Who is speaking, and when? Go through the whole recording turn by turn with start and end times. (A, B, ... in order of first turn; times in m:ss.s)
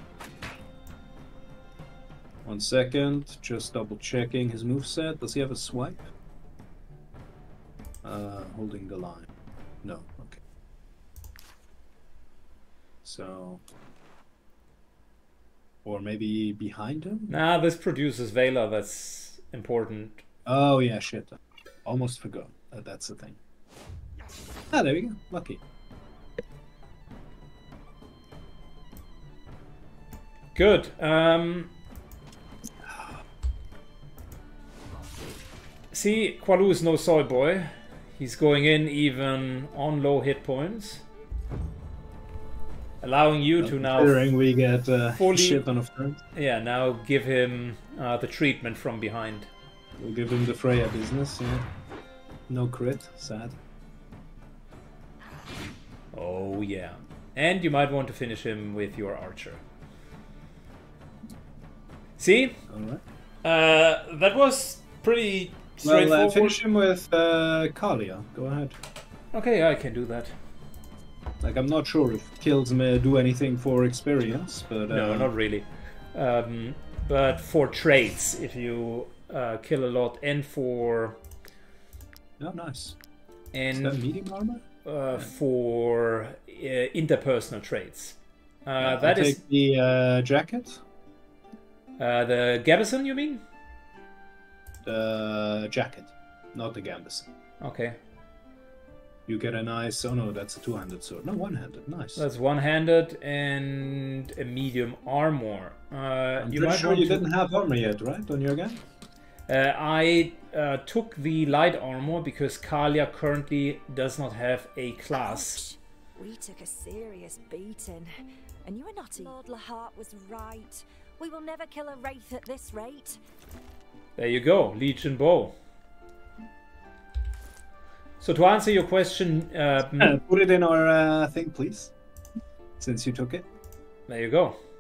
0:02.4-0:06.1 A
0:08.0-0:09.3 A
0:09.8-0:10.4 A
0:13.0-0:13.6 A
0:15.8-0:17.4 A
0:17.3-0:20.2 B
0:20.5-0:23.4 A
0:24.7-0:25.6 A
0:30.6-0:31.7 B
0:35.9-0:41.0 B
0:43.0-0:44.2 B
0:43.6-0:46.2 A
0:45.2-0:45.6 B
0:46.3-0:49.5 B
0:50.0-0:51.7 A
0:52.5-0:53.6 A
0:56.1-0:59.6 B
1:02.2-1:02.6 B
1:02.7-1:03.0 A
1:03.4-1:06.6 B
1:05.8-1:08.8 A
1:09.3-1:10.3 B
1:11.4-1:15.3 A
1:14.9-1:21.2 B
1:22.4-1:23.0 A
1:23.5-1:24.0 B
1:23.8-1:24.6 A
1:24.8-1:29.4 B
1:28.8-1:30.8 A
1:32.0-1:33.4 B
1:34.8-1:37.3 A
1:37.6-1:38.0 B
1:39.3-1:42.2 A
1:42.2-1:47.3 B
1:46.4-1:48.8 A
1:49.5-1:55.6 B
1:55.2-1:58.1 C
1:58.6-2:03.2 C
2:04.2-2:05.6 B
2:08.2-2:10.2 B
2:10.0-2:11.9 A
2:12.8-2:13.5 A
2:14.1-2:14.6 B